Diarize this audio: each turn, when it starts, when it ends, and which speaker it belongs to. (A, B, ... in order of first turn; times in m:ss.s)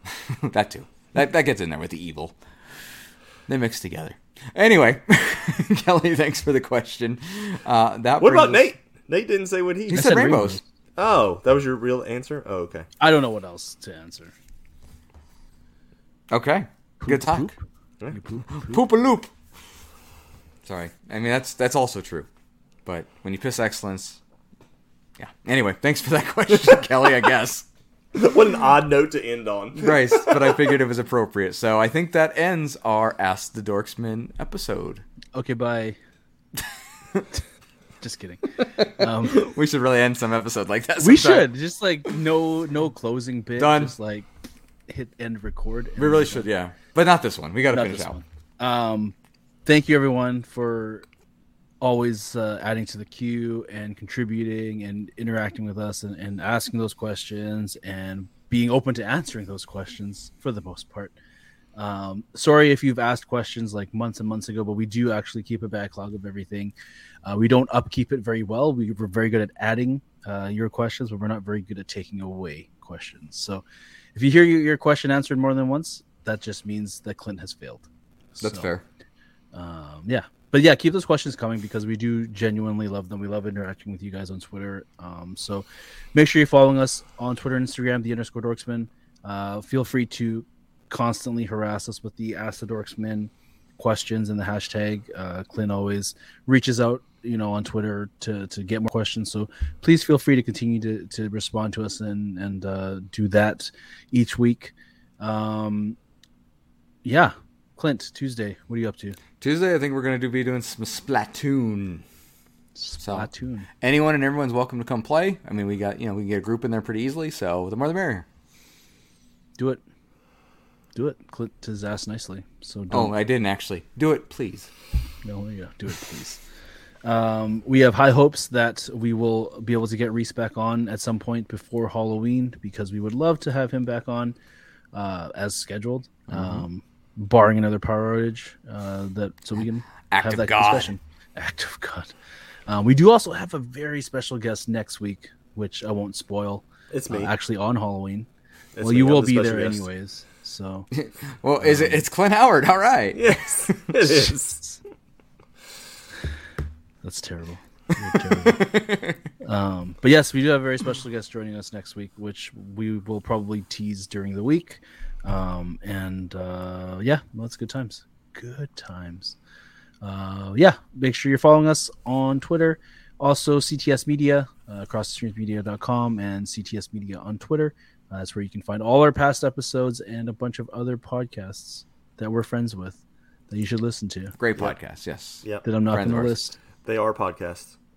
0:00.3-0:02.4 A
0:03.5-0:08.6 A
0:08.2-0:10.0 B
0:09.9-0:10.6 C
0:09.9-0:10.6 A
0:11.0-0:12.9 B
0:13.0-0:14.3 C
0:16.3-0:17.5 A
0:17.0-0:17.6 C
0:18.1-0:18.8 C
0:18.5-0:19.3 A
0:20.6-0:22.3 A
0:22.8-0:24.2 A
0:25.2-0:27.7 A
0:28.1-0:30.6 B
0:29.7-0:35.0 A
0:35.3-0:36.0 C
0:38.0-0:39.4 C
0:38.8-0:41.5 A
0:41.0-0:44.3 C
0:43.6-0:43.9 A
0:44.9-0:46.5 C
0:46.0-0:48.2 A
0:47.7-0:49.1 C
0:49.6-0:51.0 C
0:51.8-1:01.2 C
1:01.8-1:06.7 C
1:07.2-1:13.6 C
1:14.1-1:18.7 C
1:18.4-1:18.8 A
1:19.5-1:46.0 C
1:47.0-1:49.2 C
1:49.4-1:52.0 A
1:52.8-1:53.7 C
1:53.0-1:53.3 A
1:53.8-1:58.2 A
2:00.9-2:03.1 C
2:02.9-2:04.7 A
2:05.2-2:06.4 C
2:07.0-2:14.4 C
2:14.9-2:22.1 C
2:16.3-2:16.6 A
2:20.1-2:20.9 A
2:22.7-2:28.3 C
2:26.9-2:27.3 B
2:28.8-2:29.8 B
2:28.8-2:30.9 C
2:30.9-2:33.2 A
2:31.6-2:32.0 C
2:33.1-2:34.6 B
2:34.0-2:34.8 C
2:37.0-2:38.7 C
2:38.2-2:39.2 A
2:39.4-2:49.4 C
2:50.0-3:04.3 C
3:04.4-3:06.4 A
3:05.6-3:06.6 C
3:06.8-3:07.7 B